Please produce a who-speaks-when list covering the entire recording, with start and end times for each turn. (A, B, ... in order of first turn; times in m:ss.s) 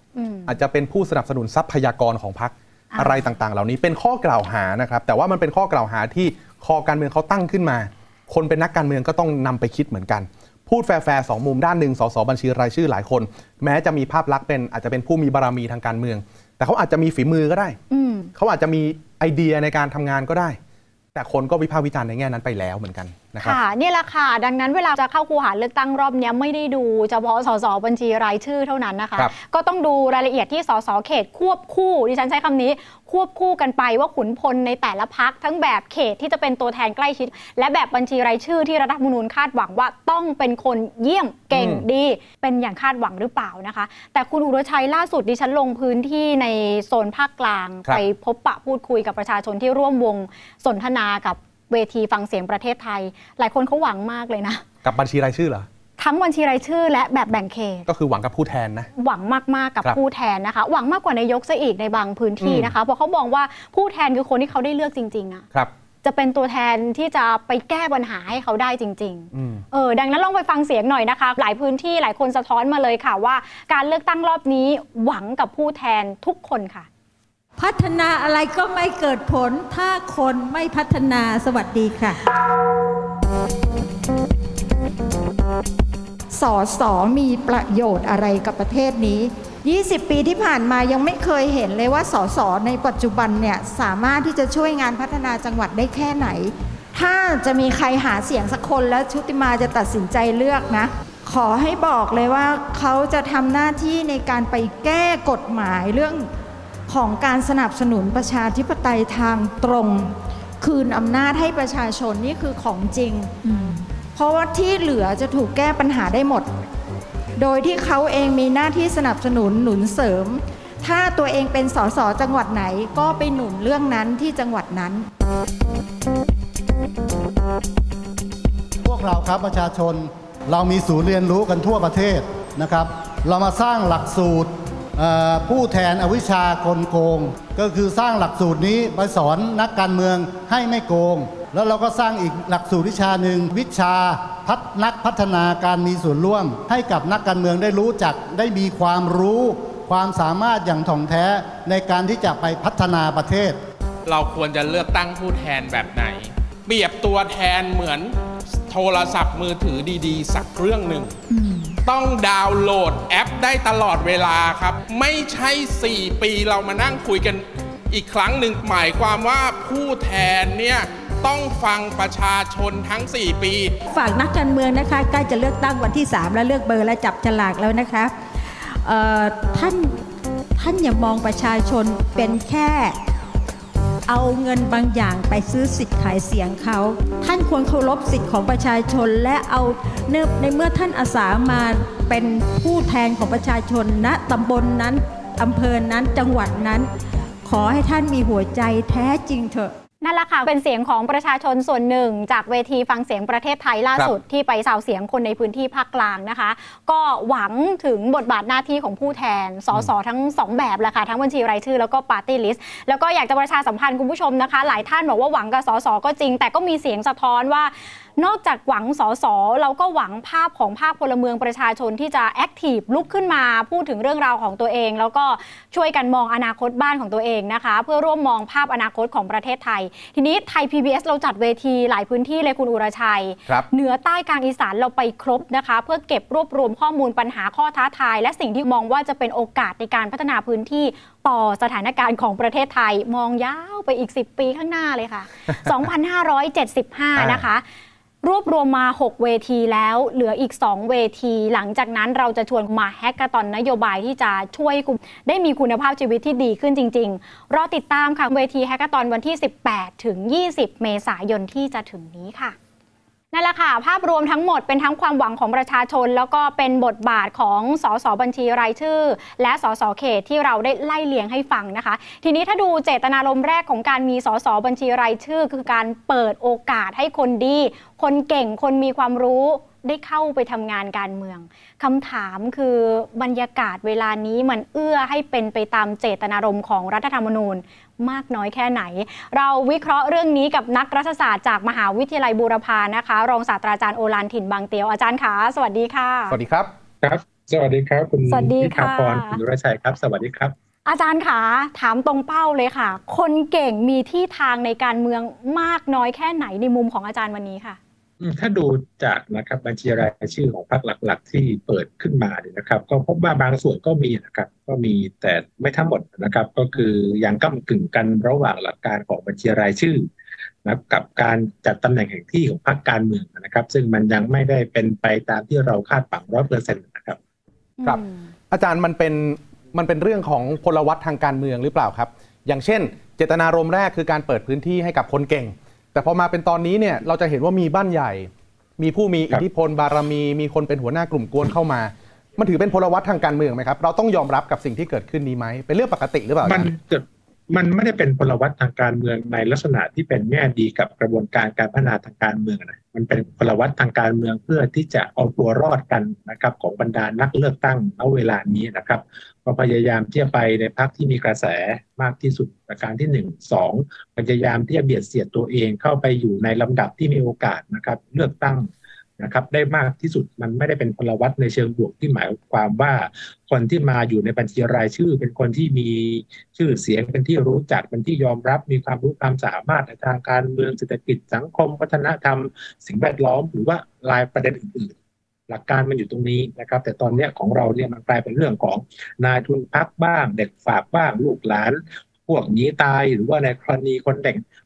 0:00.1-0:00.5 A
0:00.4-0:17.8 B
0:02.9-0:03.3 A
0:17.9-0:18.3 A
0:18.3-0:20.6 B
0:21.1-0:23.6 B
0:23.4-0:54.6 A
0:41.5-0:41.8 B
0:54.8-0:55.7 B
0:56.0-0:57.9 A
0:57.9-0:58.9 B
0:59.0-1:05.5 A
1:02.4-1:02.7 B
1:06.0-1:16.9 A
1:09.3-1:09.6 B
1:17.6-1:22.2 C
1:26.3-1:46.3 D
1:46.9-1:53.3 D
1:53.4-1:53.9 C
1:54.1-1:56.5 D
1:57.4-2:05.0 D
2:08.8-2:33.6 E
2:34.0-2:38.1 F
2:38.7-2:41.1 F
2:41.3-2:41.8 C
2:41.8-2:53.7 F
2:53.9-2:59.9 C
3:00.6-3:03.0 C
3:04.1-3:16.9 C
3:17.4-3:19.7 C
3:20.0-4:07.6 A
4:05.5-4:05.9 B
4:07.2-4:07.4 B
4:08.2-4:22.5 A
4:23.3-4:56.4 A
4:56.3-4:56.7 B
4:57.0-5:00.5 G
4:58.3-4:59.4 A
5:00.8-5:07.8 A
5:08.2-5:20.1 G
5:20.6-5:27.2 G
5:27.8-5:28.3 A
5:27.8-5:46.7 B
5:46.4-6:24.9 G
6:25.5-6:34.4 G